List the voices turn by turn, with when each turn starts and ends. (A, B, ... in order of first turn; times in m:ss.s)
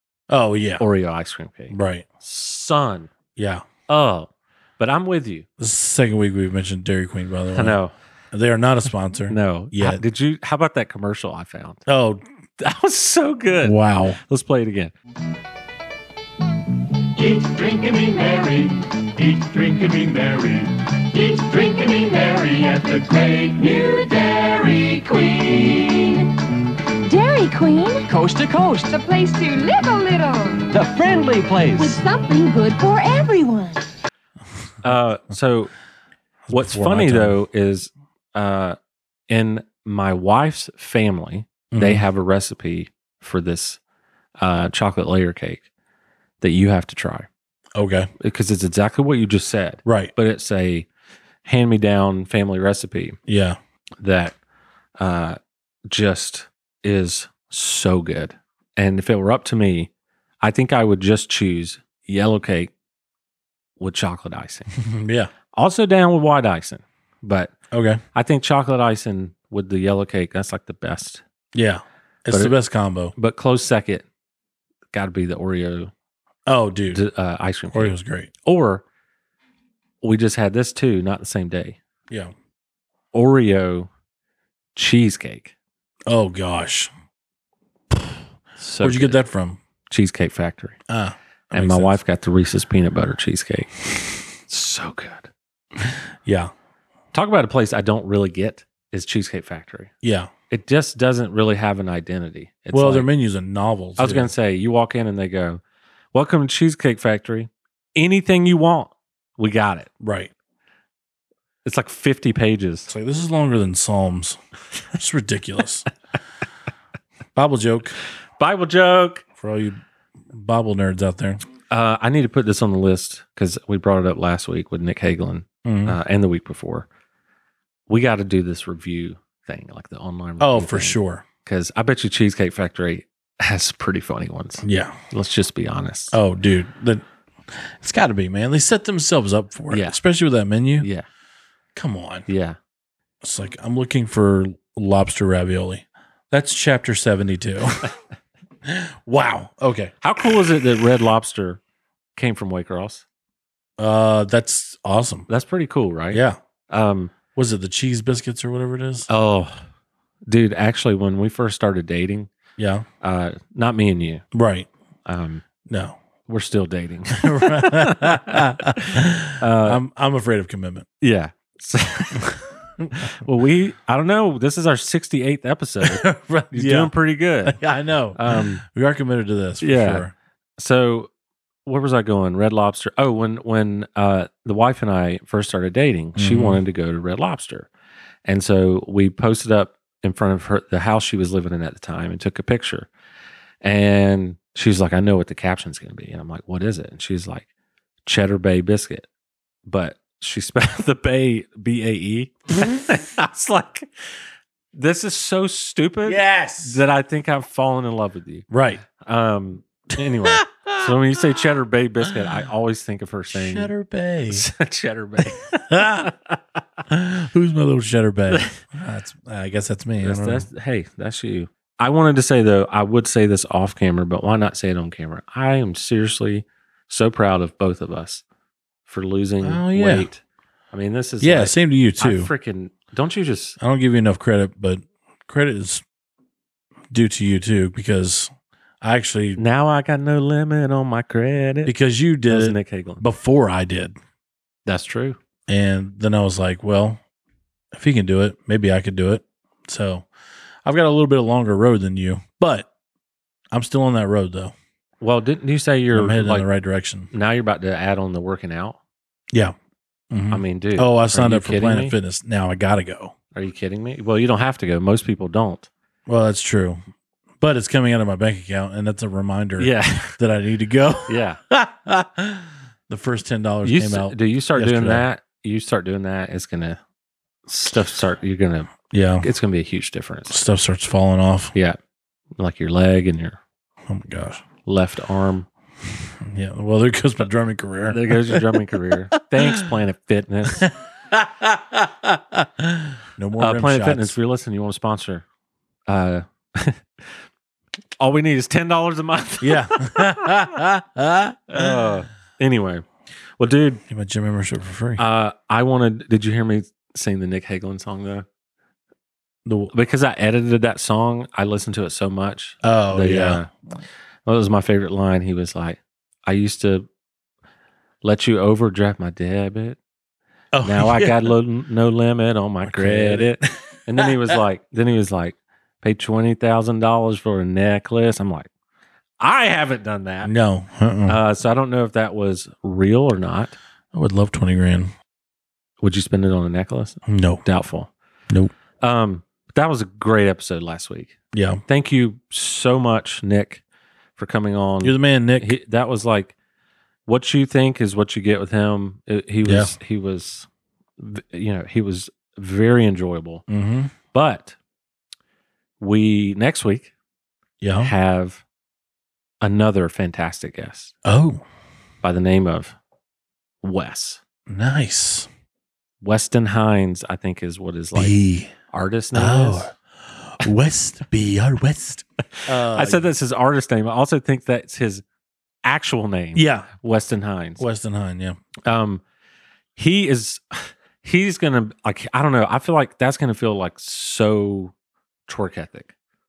0:00.3-0:00.8 A
0:00.8-0:03.1 B
0:01.7-0:02.0 A
0:03.4-0:03.6 A
0:03.9-0:05.5 B
0:05.6-0:07.8 A
0:07.5-0:07.9 B
0:08.3-0:10.0 A
0:09.3-0:11.8 B
0:11.9-0:12.2 A
0:12.6-0:14.9 B
0:13.6-0:14.2 A
0:17.2-0:24.7 C
0:23.7-0:26.3 D
0:27.0-0:30.8 D
0:28.1-0:28.8 E
0:30.7-0:32.0 E
0:31.8-0:33.9 D
0:34.8-0:35.7 B
0:36.5-0:37.4 A
0:36.5-0:38.8 B
0:39.3-0:43.8 B
0:41.7-0:42.0 A
0:44.4-0:45.7 B
0:46.4-0:47.3 B
0:47.8-0:48.1 A
0:48.2-0:50.9 B
0:49.9-0:50.1 A
0:51.4-0:53.2 B
0:53.3-0:53.6 A
0:54.0-0:54.4 B
0:55.0-0:59.9 B
1:00.4-1:02.7 B
1:03.8-1:04.7 B
1:04.8-1:05.3 A
1:05.5-1:07.6 B
1:07.7-1:08.0 A
1:08.1-1:11.2 B
1:11.5-1:13.1 A
1:12.3-1:12.6 B
1:13.2-1:14.1 B
1:14.9-1:15.9 B
1:16.5-1:17.0 A
1:16.9-1:18.8 B
1:17.7-1:18.3 A
1:20.0-1:21.8 B
1:23.1-1:23.9 B
1:24.8-1:25.5 B
1:26.1-1:26.9 A
1:28.6-1:29.2 B
1:28.8-1:29.6 A
1:29.9-1:30.8 B
1:30.9-1:32.0 A
1:31.5-1:35.3 B
1:35.8-1:36.5 A
1:37.1-1:39.9 B
1:40.0-1:40.3 A
1:40.5-1:43.1 B
1:42.7-1:44.3 A
1:44.0-1:45.6 B
1:46.1-1:49.9 B
1:50.0-1:50.3 A
1:51.6-1:52.9 B
1:52.9-1:54.4 A
1:54.9-1:55.9 A
1:57.4-1:58.0 A
1:58.4-1:59.2 B
1:59.4-2:01.4 A
2:01.7-2:06.9 B
2:05.6-2:06.0 A
2:07.9-2:16.2 B
2:10.4-2:11.2 A
2:14.6-2:15.0 A
2:16.1-2:20.9 A
2:19.7-2:20.0 B
2:20.8-2:21.1 B
2:21.8-2:22.3 A
2:22.3-2:22.6 B
2:23.2-2:27.9 A
2:28.6-2:29.9 A
2:30.0-2:31.6 B
2:32.2-2:33.0 B
2:33.8-2:35.3 A
2:35.3-2:37.2 B
2:36.1-2:36.4 A
2:37.4-2:39.1 A
2:39.1-2:39.6 B
2:40.3-2:42.3 B
2:42.6-2:42.9 A
2:43.0-2:44.2 B
2:44.3-2:44.7 A
2:45.1-2:45.4 B
2:45.7-2:46.0 A
2:46.3-2:49.8 B
2:47.2-2:50.9 A
2:51.0-2:52.4 B
2:52.8-2:53.1 A
2:53.0-2:57.6 B
2:55.8-2:56.9 A
2:57.4-3:00.1 A
2:58.2-2:58.6 B
2:59.6-3:00.1 B
3:00.6-3:01.1 B
3:01.7-3:07.7 B
3:06.2-3:06.6 A
3:08.3-3:12.9 B
3:13.6-3:17.5 B
3:18.0-3:19.1 B
3:19.7-3:23.9 B
3:24.7-3:33.7 B
3:26.0-3:26.8 A
3:28.5-3:28.8 A
3:30.2-3:31.0 A
3:33.3-3:34.5 A
3:34.3-3:36.1 B
3:35.4-3:36.1 A
3:36.9-3:40.5 A
3:38.3-3:38.6 B
3:40.0-3:48.2 B
3:48.9-3:53.6 B
3:49.4-3:50.1 A
3:51.2-3:52.3 A
3:53.6-3:55.8 A
3:56.9-3:59.4 A
3:59.4-4:01.7 B
4:01.7-4:04.0 A
4:02.3-4:03.0 B
4:04.7-4:05.2 B
4:05.5-4:07.0 A
4:07.7-4:10.1 A
4:10.6-4:12.7 A
4:13.5-4:14.5 A
4:15.0-4:16.5 B
4:15.9-4:17.1 A
4:17.1-4:18.8 B
4:20.1-4:23.2 A
4:20.3-4:22.0 B
4:23.3-4:25.7 B
4:26.1-4:26.8 A
4:27.4-4:35.0 A
4:29.6-4:30.2 B
4:31.1-4:31.4 B
4:33.6-4:36.8 B
4:37.5-4:40.4 B
4:38.9-4:39.3 A
4:40.3-4:41.5 A
4:42.4-4:43.4 B
4:43.9-4:44.4 A
4:44.6-4:45.5 B
4:46.2-4:48.4 A
4:47.9-4:50.7 B
4:49.4-4:49.6 A
4:50.5-4:54.2 A
4:53.4-4:55.2 B
4:55.9-4:57.2 B
4:58.0-5:00.5 B
4:59.4-5:02.0 A
5:01.5-5:02.9 B
5:03.4-5:03.8 B
5:03.9-5:05.0 A
5:05.0-5:08.3 B
5:09.5-5:09.7 A
5:09.7-5:13.5 B
5:12.6-5:13.4 A
5:14.3-5:16.9 B
5:18.0-5:19.8 B
5:20.5-5:21.3 A
5:20.6-5:28.5 B
5:22.6-5:23.3 A
5:24.0-5:24.4 A
5:29.2-5:30.3 B
5:30.2-5:31.2 A
5:31.1-5:33.6 B
5:33.9-5:34.9 A
5:35.8-5:37.9 B
5:37.1-5:37.4 A
5:38.8-5:43.6 B
5:41.3-5:41.6 A
5:44.2-5:46.3 B
5:44.8-5:45.5 A
5:47.1-5:50.5 B
5:49.4-5:49.7 A
5:51.0-5:53.4 B
5:53.5-5:53.9 A
5:54.1-5:54.6 B
5:55.8-5:56.9 B
5:57.6-5:57.9 A
5:57.8-5:58.4 B
5:59.4-6:00.9 B
6:01.0-6:01.4 A
6:02.0-6:02.8 B
6:03.6-6:04.2 B
6:04.5-6:05.3 A
6:06.0-6:08.2 B
6:07.9-6:08.5 A
6:08.7-6:09.7 B
6:09.1-6:13.0 A
6:12.4-6:15.0 B
6:15.6-6:17.6 B
6:16.4-6:16.7 A
6:17.6-6:18.4 A
6:18.7-6:19.0 B
6:19.8-6:24.7 B
6:25.3-6:25.9 B